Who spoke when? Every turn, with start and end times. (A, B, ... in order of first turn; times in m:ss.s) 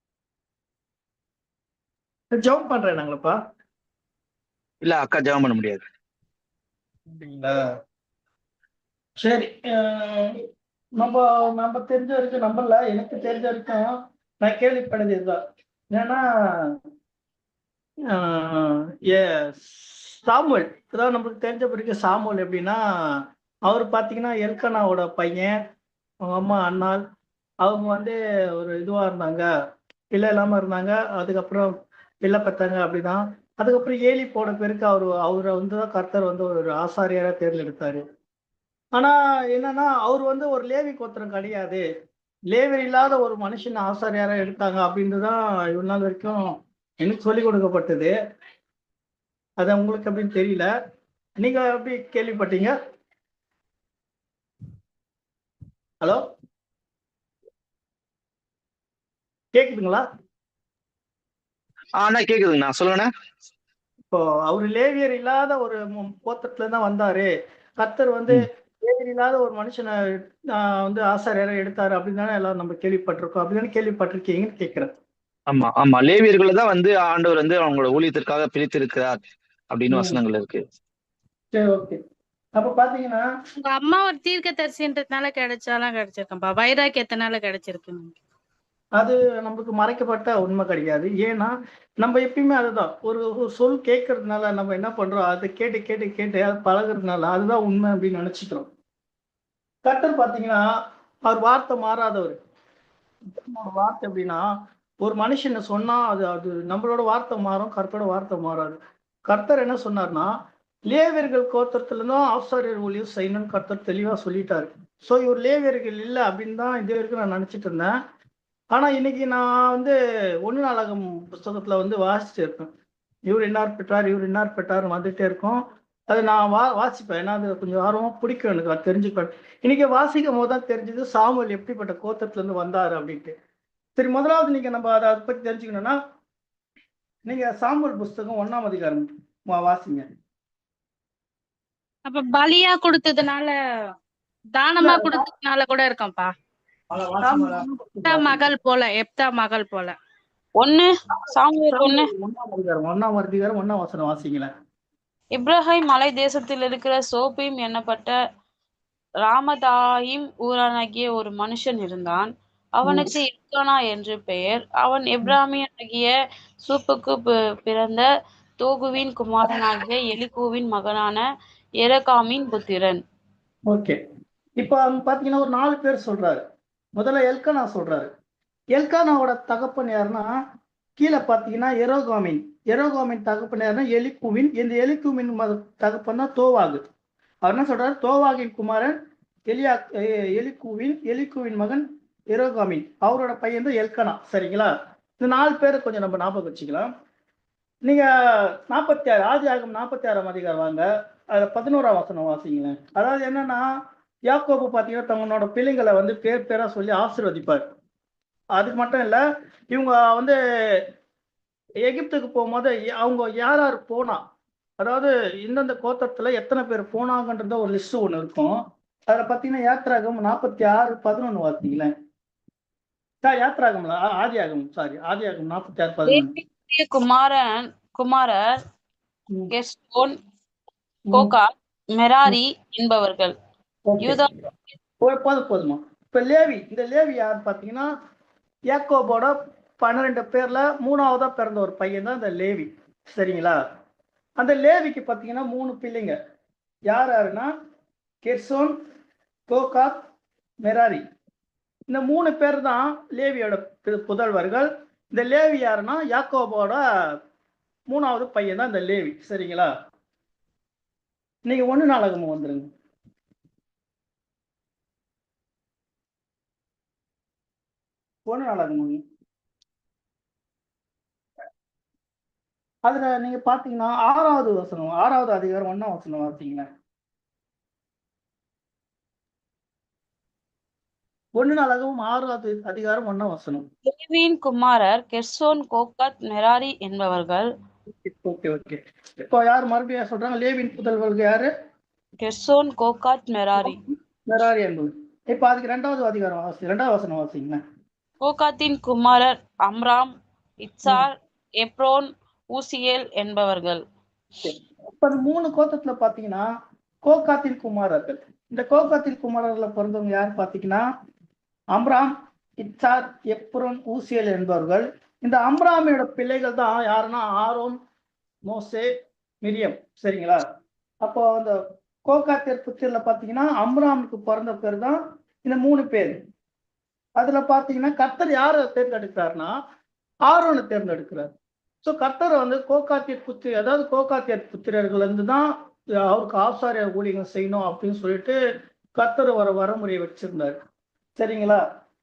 0:02.3-0:03.4 A
0:04.8-0:05.8 B
0:07.1-0:07.5 A
0:09.2-0:10.3 A
0:11.0-0:13.9 A
0:14.4-0:15.4 A
0:15.9-0:16.7 A
0:18.1-0:22.8 A
0:23.7-0:25.5 A
0:26.3-0:27.0 A
0:27.6-0:29.4 A
0:30.1-0:31.7 A
0:32.2-0:38.0 A
0:39.0-0:41.8 A
0:42.5-0:46.4 A
0:47.0-0:48.1 A
0:49.6-0:50.7 A
0:51.4-0:52.7 A
0:59.5-1:00.0 A
1:02.0-1:03.1 B
1:04.1-1:09.9 A
1:10.5-1:14.9 A
1:15.5-1:20.6 B
1:19.9-1:20.2 A
1:21.5-1:22.0 A
1:22.6-1:23.2 A
1:23.6-1:28.2 C
1:29.0-1:38.7 A
1:39.8-1:40.6 A
1:41.3-1:42.4 A
1:43.3-1:44.4 A
1:45.0-1:50.3 A
1:50.9-1:57.9 A
1:58.7-1:59.9 A
2:00.4-2:02.7 A
2:03.3-2:13.3 A
2:14.0-2:15.9 A
2:17.3-2:20.0 A
2:22.1-2:23.5 C
2:24.5-2:26.3 C
2:24.8-2:25.2 A
2:26.9-2:28.5 A
2:27.2-2:29.9 C
2:30.6-2:32.0 D
2:31.1-2:34.5 A
2:35.3-2:38.2 D
2:39.3-2:46.1 D
2:42.8-2:43.1 A
2:46.6-2:48.0 D
2:48.6-2:51.2 D
2:51.8-2:53.0 D
2:53.7-2:54.0 A
2:54.6-2:56.4 A
2:57.0-2:58.1 A
2:58.7-3:00.3 A
3:01.0-3:06.8 A
3:07.4-3:08.9 A
3:09.5-3:16.9 A
3:17.8-3:23.6 A
3:24.3-3:27.6 A
3:28.6-3:30.8 A
3:31.8-3:34.2 A
3:34.8-3:38.6 A
3:39.1-3:41.9 A
3:43.2-3:46.3 A
3:46.0-3:48.6 D
3:49.5-3:50.1 D
3:51.1-3:53.3 D
3:53.9-3:54.4 A
3:54.0-3:54.3 D
3:55.0-3:57.9 A
3:58.7-4:03.6 A
4:04.4-4:06.1 A
4:06.9-4:07.5 A
4:08.2-4:08.7 A
4:09.5-4:09.9 A
4:10.6-4:11.0 A
4:11.9-4:16.8 A
4:17.9-4:19.7 A
4:21.4-4:22.7 A
4:28.3-4:29.0 A
4:32.9-4:36.6 A
4:41.4-4:43.6 A
4:43.9-4:47.5 D
4:48.0-4:51.5 A
4:52.2-4:53.8 D
4:53.6-4:57.6 A
4:58.2-5:00.1 D
5:00.6-5:03.8 D
5:04.4-5:06.4 A
5:07.0-5:10.8 A
5:11.7-5:17.8 A
5:18.5-5:18.9 A
5:19.4-5:20.4 A
5:21.0-5:21.5 A
5:22.1-5:26.2 A
5:27.2-5:29.5 A
5:30.3-5:31.3 A
5:31.8-5:35.5 A
5:36.0-5:38.4 A
5:39.0-5:40.6 A
5:41.2-5:41.6 A